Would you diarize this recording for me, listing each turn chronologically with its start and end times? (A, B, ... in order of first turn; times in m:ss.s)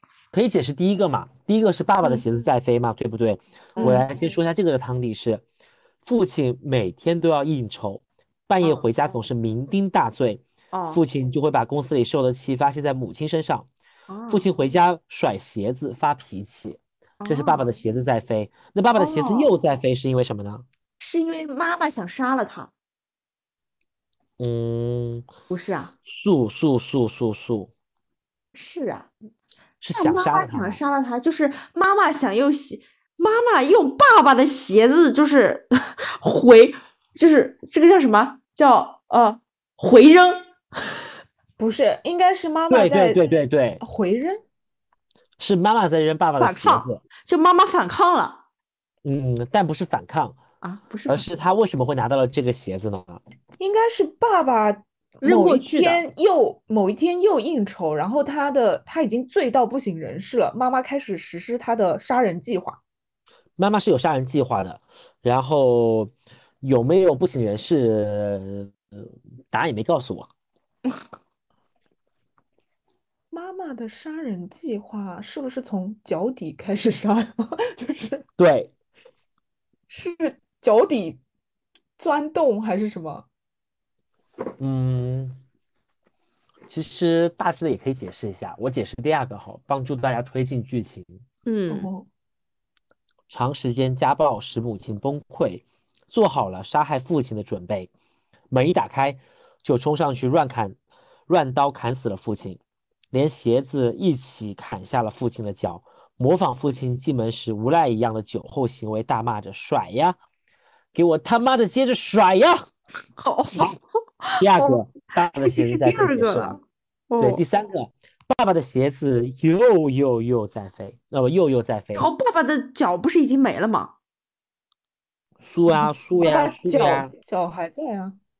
0:00.3-0:05.4 A
0:03.8-0:04.1 B
0:06.0-0:13.7 A
0:10.7-0:11.0 B
0:14.1-0:14.5 B
0:14.3-0:20.6 A
0:17.2-0:17.6 B
0:18.9-0:19.5 B
0:21.0-0:22.7 B
0:24.4-0:25.3 A
0:25.5-0:25.9 B
0:26.0-0:27.7 A
0:28.5-0:29.1 B
0:29.8-0:30.8 A
0:29.9-0:40.4 B
0:41.6-0:43.2 C
0:42.7-0:43.8 A
0:43.8-0:44.4 C
0:45.4-0:47.0 A
0:46.4-0:48.4 B
0:49.0-0:50.4 A
0:50.6-0:51.3 B
0:51.1-0:53.2 A
0:53.6-1:02.8 C
0:55.2-0:56.0 B
1:03.6-1:10.3 A
1:13.3-1:18.2 C
1:18.4-1:18.7 A
1:19.9-1:21.2 C
1:22.0-1:23.3 C
1:24.6-1:25.4 A
1:26.7-1:31.2 A
1:31.4-1:31.9 B
1:31.7-1:32.1 C
1:33.3-1:37.9 A
1:38.5-1:40.8 A
1:41.3-1:42.6 A
1:43.1-1:50.2 A
1:50.9-1:52.7 A
1:53.2-1:54.8 B
1:54.4-1:56.6 A
1:55.4-1:57.4 B
1:57.2-2:02.1 A
2:01.9-2:03.9 B
2:05.4-2:07.1 A
2:05.7-2:08.2 C